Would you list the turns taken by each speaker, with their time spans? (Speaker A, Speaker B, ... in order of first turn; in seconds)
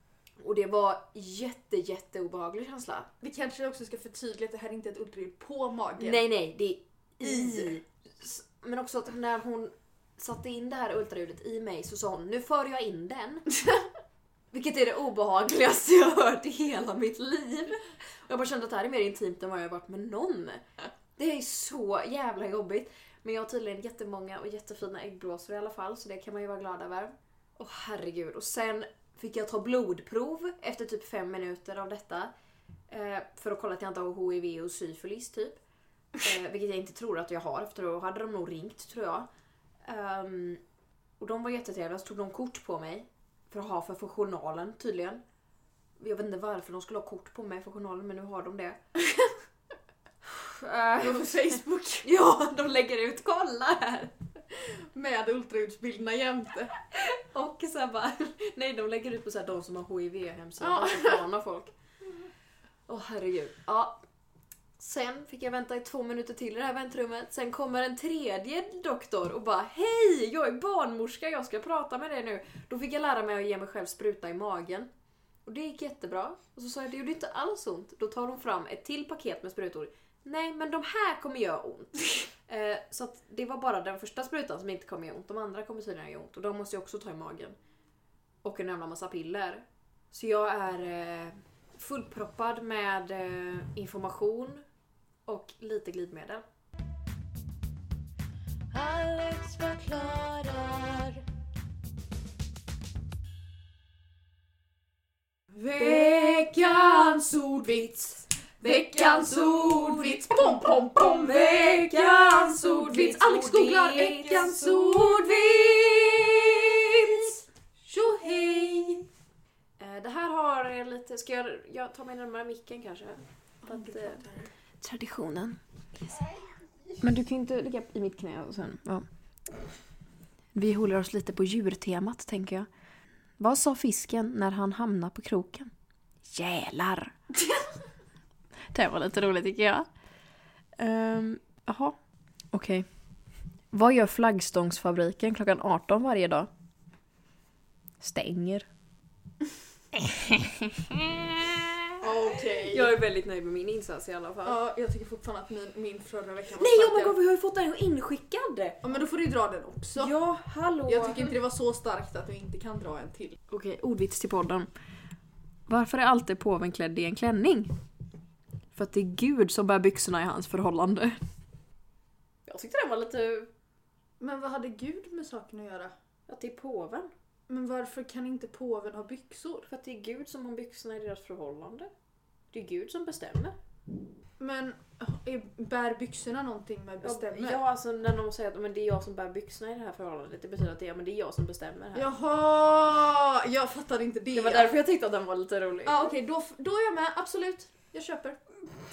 Speaker A: 0.4-3.1, 6.0-13.4, 14.5-20.6, 21.2-32.3, 32.9-35.6, 36.2-39.3, 39.8-40.6, 41.2-45.2, 46.0-48.8, 50.2-51.5, 52.0-54.1, 56.9-61.7, 62.9-64.0, 64.8-74.9, 75.5-87.6, 88.4-94.6, 95.2-96.4, 98.7-101.2, 105.8-106.6, 108.6-110.3, 110.9-115.3, 119.8-124.2, 124.8-125.6, 127.0-129.1, 130.5-132.7, 133.4-135.7, 136.2-137.1, 138.7-139.9, 140.8-142.0, 142.5-142.8, 143.7-146.5, 148.0-148.7, 150.3-151.8, 152.5-154.6, 156.5-158.8, 160.0-161.3, 163.5-164.7, 165.7-167.7, 168.7-171.2, 172.5-173.5, 176.3-177.1, 179.7-181.9, 182.5-183.6, 187.0-192.1, 194.3-196.1
Speaker B: 3.2-6.2, 7.2-7.7, 51.0-52.0, 54.6-56.7, 60.6-61.2, 105.5-119.0, 123.6-124.5, 152.0-152.9, 154.4-157.1, 158.8-160.1, 160.8-163.4, 174.2-175.9, 177.5-179.7, 184.4-187.6, 191.9-194.8, 195.8-198.4